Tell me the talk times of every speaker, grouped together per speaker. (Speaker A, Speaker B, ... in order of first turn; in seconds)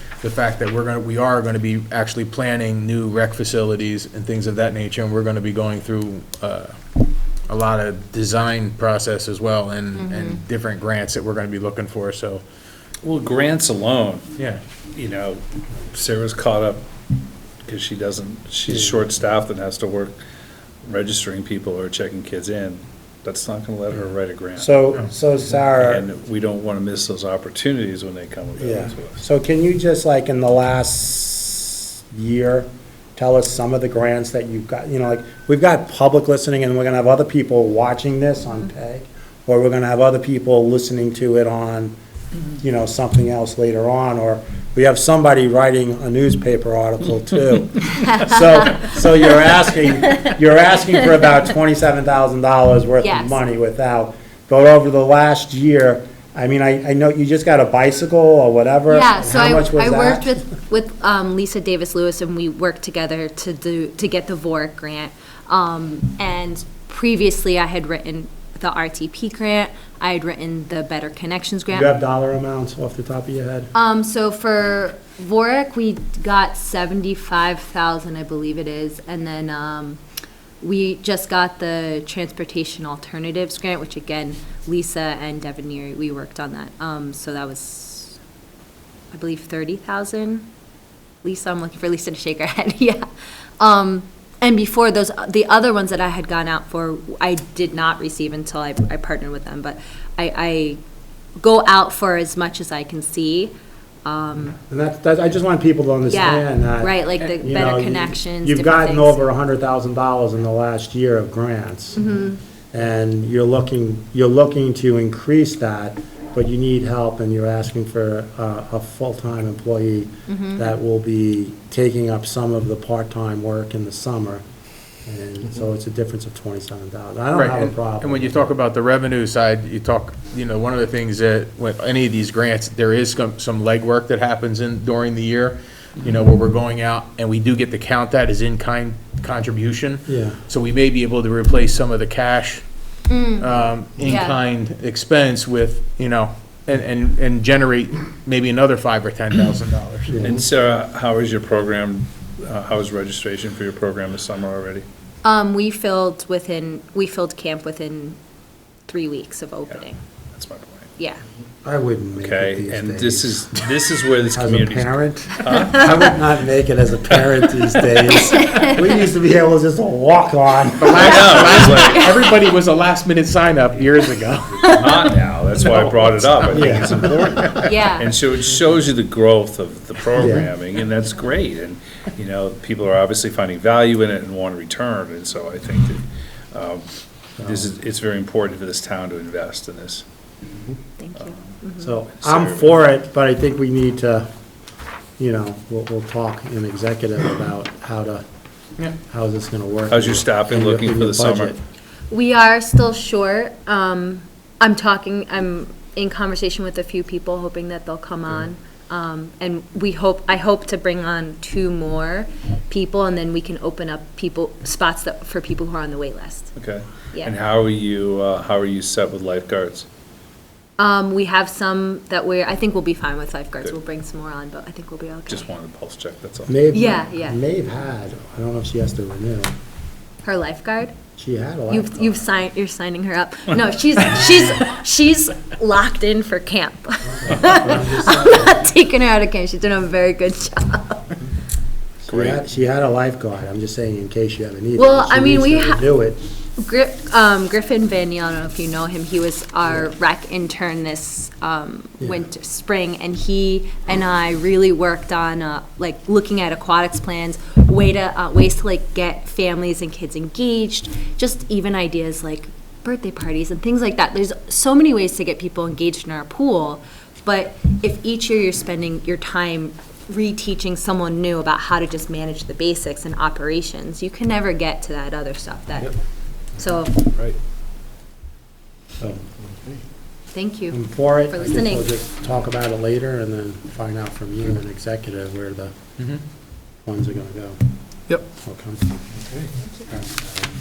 Speaker A: 0.2-6.8, 7.5-12.4, 127.3-142.6, 143.4-150.2, 170.8-174.8, 175.6-177.6
Speaker B: 9.9-10.4, 47.9-48.9, 53.0-53.4, 58.9-71.9, 73.7-80.0, 80.6-88.2, 89.1-90.5, 91.2-93.0, 93.6-100.8, 101.4-104.6, 106.1-109.3, 111.9-112.4, 120.3-120.7, 143.1-144.4, 155.2-158.2, 158.9-160.0, 161.0-161.2, 168.2-168.9, 171.6-172.2, 174.7-175.1, 177.6-178.1, 191.0-191.9, 202.1-216.5, 220.8-225.5, 226.7-227.4, 230.2-230.9, 231.7-241.0, 244.8-245.9, 246.6-275.9, 276.6-277.1, 280.3-281.9
Speaker C: 13.0-14.3, 14.9-16.8, 17.6-20.2, 20.8-24.8, 25.8-29.1, 150.2-154.8, 160.3-160.9, 162.2-166.0, 170.9-172.2, 174.6-186.9, 187.4-190.0, 192.2-192.7, 199.9-201.5, 216.6-219.9, 225.3-226.6, 242.1-242.4
Speaker D: 18.7-18.9, 24.6-26.0, 28.6-41.9, 42.6-60.4, 71.7-73.7, 104.7-112.0, 112.7-124.4, 125.0-128.5, 140.1-140.4, 150.1-150.4, 161.6-163.7, 164.3-171.2, 176.5-176.9, 180.2-180.5, 187.4-187.7, 191.8-194.3, 195.2-198.2, 199.1-201.6, 226.5-229.5, 231.2-232.2, 237.1-238.7, 242.0-246.2, 252.0-252.2, 279.0-279.2, 280.7-285.7, 286.9-287.6, 288.3-288.9, 289.9-290.4